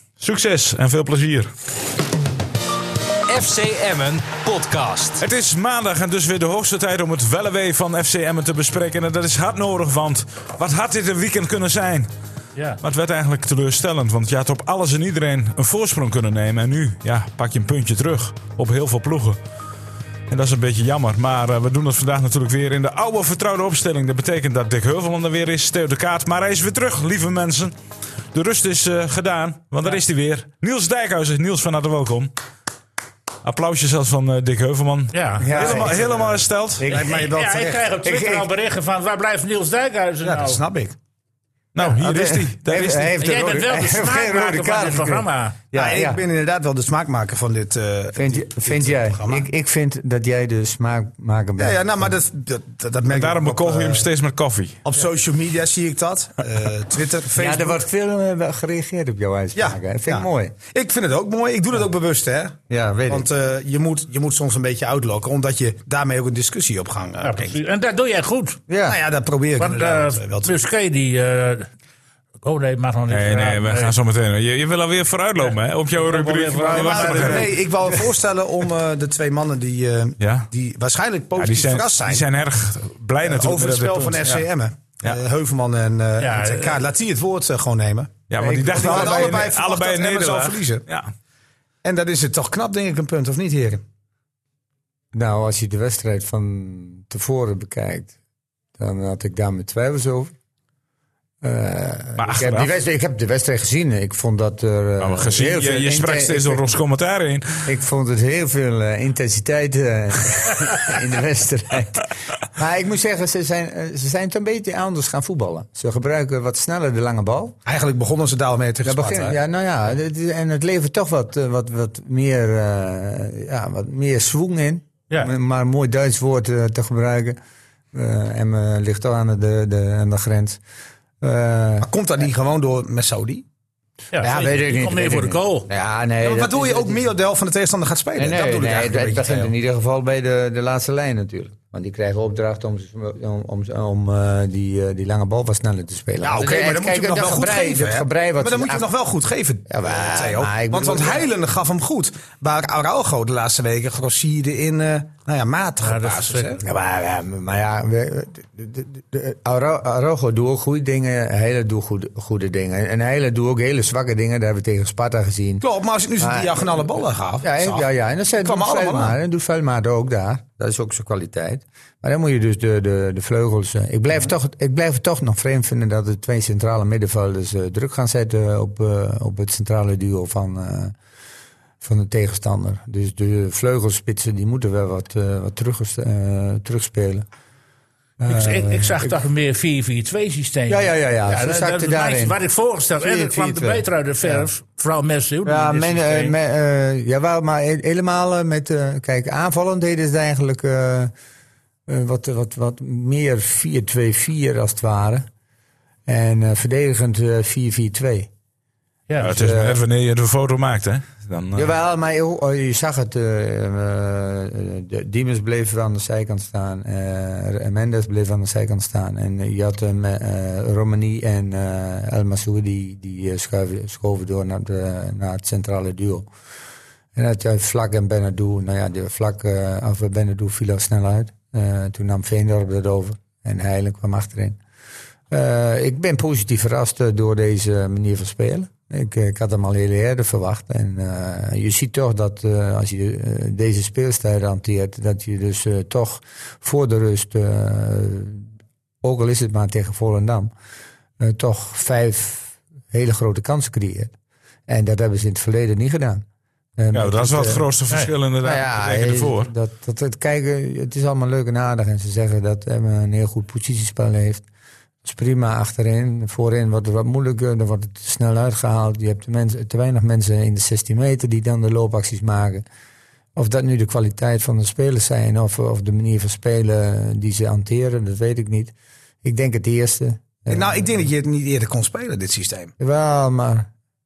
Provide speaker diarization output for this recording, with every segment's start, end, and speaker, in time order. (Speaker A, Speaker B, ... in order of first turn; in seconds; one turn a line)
Speaker A: 0.2-1.5
Speaker B: 3.3-5.2
Speaker A: 5.2-12.1
Speaker A: 12.8-19.4
Speaker A: 20.3-27.8
Speaker A: 28.3-32.3
Speaker A: 33.4-36.9
Speaker C: 35.1-35.7
Speaker D: 35.4-36.1
Speaker D: 36.8-37.4
Speaker C: 36.9-40.6
Speaker E: 36.9-37.9
Speaker D: 38.0-38.5
Speaker E: 40.2-41.0
Speaker A: 41.7-43.2
Speaker D: 41.8-46.2
Speaker C: 43.2-45.6
Speaker E: 45.7-49.5
Speaker D: 48.2-52.1
Speaker E: 51.6-54.0
Speaker A: 53.1-54.8
Speaker E: 54.9-57.8
Speaker D: 57.3-60.5
Speaker E: 59.5-67.6
Speaker D: 62.7-63.3
Speaker C: 67.2-68.6
Speaker D: 68.7-69.0
Speaker E: 68.9-70.5
Speaker C: 69.6-71.7
Speaker C: 72.4-74.0
Speaker A: 73.1-77.5
Speaker C: 75.9-77.5
Speaker E: 76.7-82.3
Speaker A: 80.2-80.5
Speaker A: 81.4-84.4
Speaker E: 83.2-90.8
Speaker C: 86.2-86.8
Speaker A: 88.3-91.1
Speaker D: 88.4-89.5
Speaker E: 91.8-93.8
Speaker D: 95.1-98.1
Speaker D: 98.8-100.3
Speaker D: 101.4-106.8
Speaker A: 102.2-102.7
Speaker A: 105.0-107.7
Speaker D: 107.7-117.6
Speaker E: 117.7-119.4
Speaker D: 118.8-127.4
Speaker D: 127.9-130.6
Speaker D: 131.2-131.9
Speaker E: 131.8-133.4
Speaker C: 134.1-135.7
Speaker D: 134.2-137.1
Speaker E: 136.2-139.5
Speaker D: 138.2-148.9
Speaker E: 146.2-156.6
Speaker D: 149.7-151.3
Speaker C: 155.8-156.6
Speaker D: 156.6-165.6
Speaker E: 165.6-167.9
Speaker D: 166.2-180.9
Speaker E: 168.4-169.2
Speaker D: 181.8-187.3
Speaker D: 188.2-189.2
Speaker C: 188.3-196.3
Speaker D: 190.7-192.4
Speaker D: 193.0-194.5
Speaker D: 195.4-201.1
Speaker D: 201.9-205.3
Speaker D: 206.1-208.3
Speaker C: 209.1-209.4
Speaker A: 209.2-211.7
Speaker D: 209.3-209.8
Speaker D: 211.6-226.3
Speaker D: 227.2-234.6
Speaker D: 235.3-248.4
Speaker D: 249.0-250.5
Speaker D: 251.2-254.1
Speaker D: 254.7-256.2
Speaker D: 256.8-257.6
Speaker A: 256.9-259.5
Speaker D: 258.4-264.5
Speaker D: 265.0-272.7
Speaker D: 273.4-281.1
Speaker E: 280.5-282.7
Speaker D: 282.8-283.7